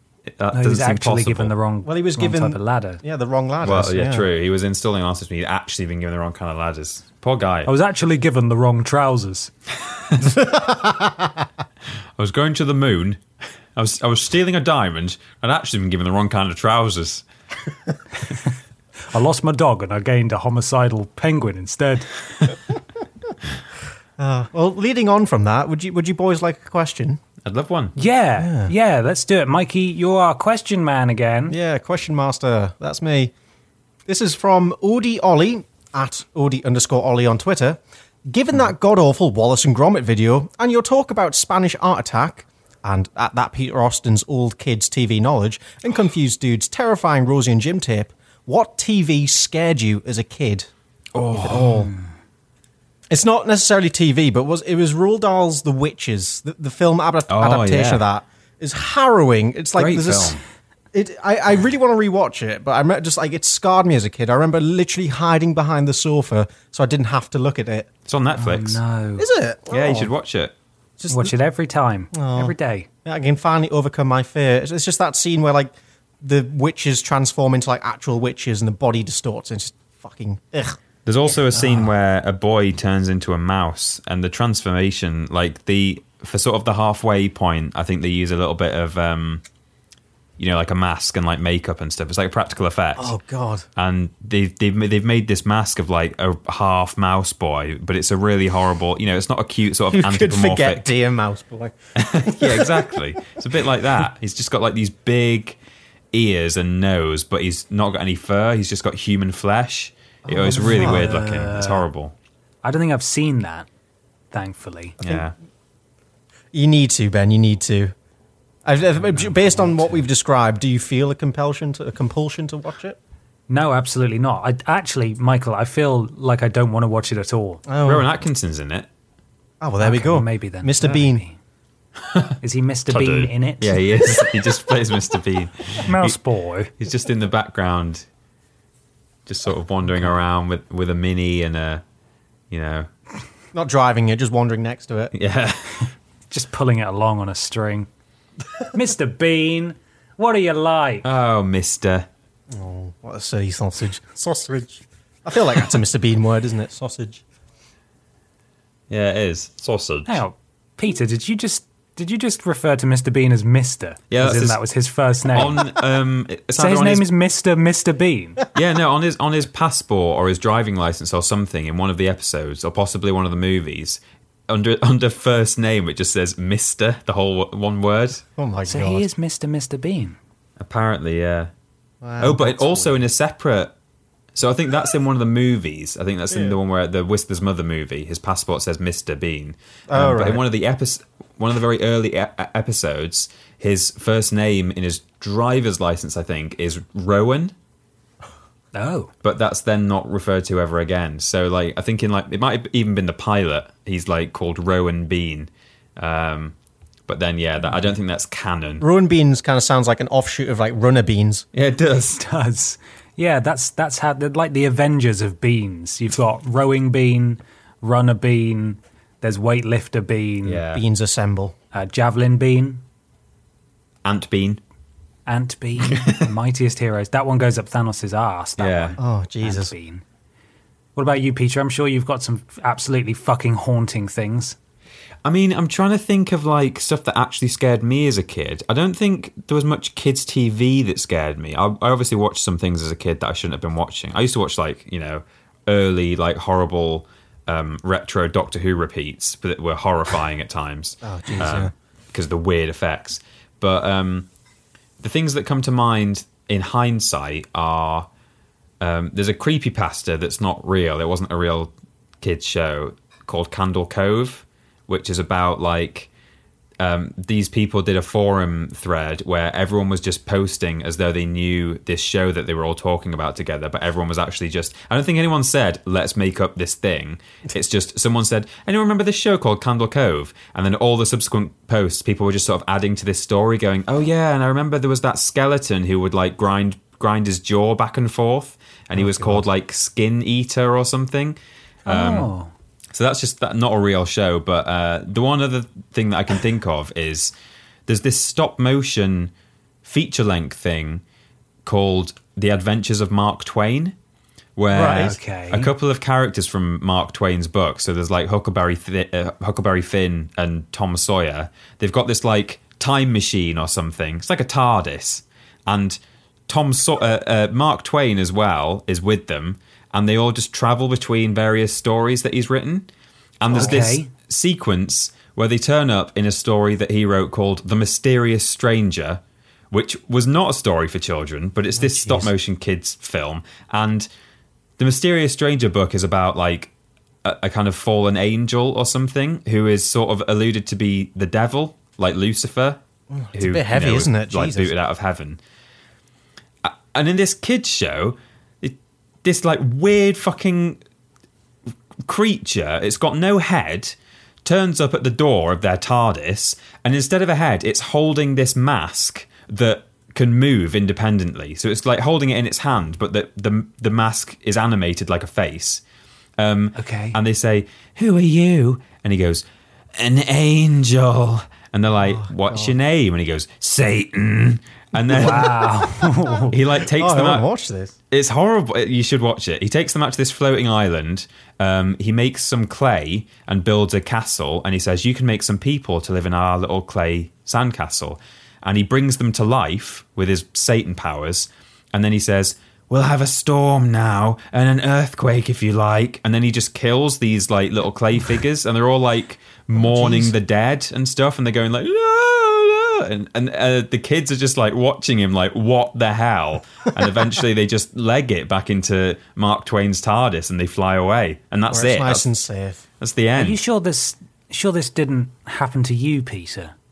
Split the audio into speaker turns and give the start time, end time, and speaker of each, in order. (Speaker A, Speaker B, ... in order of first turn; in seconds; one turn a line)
Speaker A: 0.4-1.5
Speaker B: 0.5-3.0
Speaker C: 1.8-4.2
Speaker A: 3.6-7.7
Speaker B: 7.6-9.5
Speaker A: 10.1-10.3
Speaker C: 10.3-11.3
Speaker A: 12.2-13.2
Speaker A: 13.8-17.2
Speaker B: 19.1-22.5
Speaker C: 24.2-27.2
Speaker A: 27.4-27.9
Speaker B: 27.9-31.6
Speaker C: 28.4-28.7
Speaker C: 31.5-33.3
Speaker C: 34.0-50.7
Speaker A: 51.1-51.9
Speaker C: 51.4-51.9
Speaker C: 53.1-60.4
Speaker A: 57.3-58.0
Speaker A: 59.8-60.4
Speaker C: 60.9-67.9
Speaker A: 68.1-68.8
Speaker B: 68.3-69.3
Speaker C: 69.2-70.1
Speaker A: 69.7-70.5
Speaker C: 71.0-71.3
Speaker B: 71.1-72.9
Speaker C: 72.1-72.5
Speaker C: 73.0-80.8
Speaker A: 81.0-89.4
Speaker A: 90.4-93.2
Speaker C: 93.0-93.7
Speaker A: 93.8-100.9
Speaker C: 99.9-103.0
Speaker A: 102.0-105.6
Speaker A: 106.1-112.1
Speaker C: 110.2-111.2
Speaker B: 110.3-111.8
Speaker B: 112.6-113.7
Speaker B: 114.3-115.0
Speaker A: 115.0-115.3
Speaker C: 116.5-117.9
Speaker C: 118.6-123.0
Speaker B: 119.1-120.0
Speaker B: 123.5-127.6
Speaker C: 127.7-128.1
Speaker A: 127.8-128.9
Speaker C: 129.6-131.2
Speaker B: 129.8-131.4
Speaker A: 132.1-132.3
Speaker B: 132.4-133.8
Speaker A: 132.9-136.2
Speaker B: 135.8-136.7
Speaker A: 136.8-138.0
Speaker A: 139.3-141.8
Speaker A: 142.5-142.9
Speaker C: 143.5-145.1
Speaker A: 145.1-145.8
Speaker B: 146.3-147.9
Speaker B: 148.6-151.1
Speaker A: 151.0-152.1
Speaker C: 152.5-157.2
Speaker A: 158.9-160.2
Speaker B: 160.1-165.7
Speaker A: 164.1-164.6
Speaker A: 165.3-167.1
Speaker B: 166.6-168.4
Speaker A: 168.5-178.2
Speaker C: 178.4-179.1
Speaker B: 178.7-180.2
Speaker A: 180.6-181.5
Speaker C: 182.0-183.0
Speaker A: 182.2-183.7
Speaker A: 184.3-197.5
Speaker C: 186.3-186.6
Speaker C: 189.9-190.4
Speaker B: 198.7-199.1
Speaker A: 199.2-206.6
Speaker A: 207.1-208.8
Speaker C: 208.8-211.4
Speaker A: 211.5-212.2
Speaker B: 212.0-220.6
Speaker A: 220.4-220.8
Speaker C: 220.7-221.6
Speaker B: 221.7-222.8
Speaker A: 224.1-224.6
Speaker B: 225.3-230.0
Speaker A: 225.8-226.3
Speaker A: 228.6-228.9
Speaker C: 229.0-229.7
Speaker B: 230.9-234.6
Speaker A: 235.2-254.3
Speaker C: 251.0-251.7
Speaker A: 255.0-258.1
Speaker A: 258.8-266.1
Speaker A: 266.8-292.3
Speaker C: 289.0-289.4
Speaker B: 291.9-292.5
Speaker A: 292.9-297.3
Speaker A: 297.9-299.3
Speaker A: 299.8-301.0
Speaker A: 301.7-303.9
Speaker A: 304.6-322.9
Speaker B: 304.7-305.7
Speaker C: 304.8-305.1
Speaker A: 323.4-334.1
Speaker B: 323.5-324.1
Speaker C: 331.8-332.3
Speaker A: 334.8-336.7
Speaker A: 337.2-342.8
Speaker C: 343.1-344.7
Speaker A: 343.3-345.4
Speaker A: 346.6-350.8
Speaker A: 352.0-365.8
Speaker A: 366.4-375.6
Speaker B: 366.7-367.2
Speaker C: 372.0-372.7
Speaker B: 375.1-376.6
Speaker C: 375.2-375.5
Speaker A: 376.5-377.5
Speaker C: 376.8-377.9
Speaker A: 378.1-412.3
Speaker C: 399.8-400.3
Speaker C: 411.7-412.8
Speaker A: 413.0-413.6
Speaker B: 413.4-416.7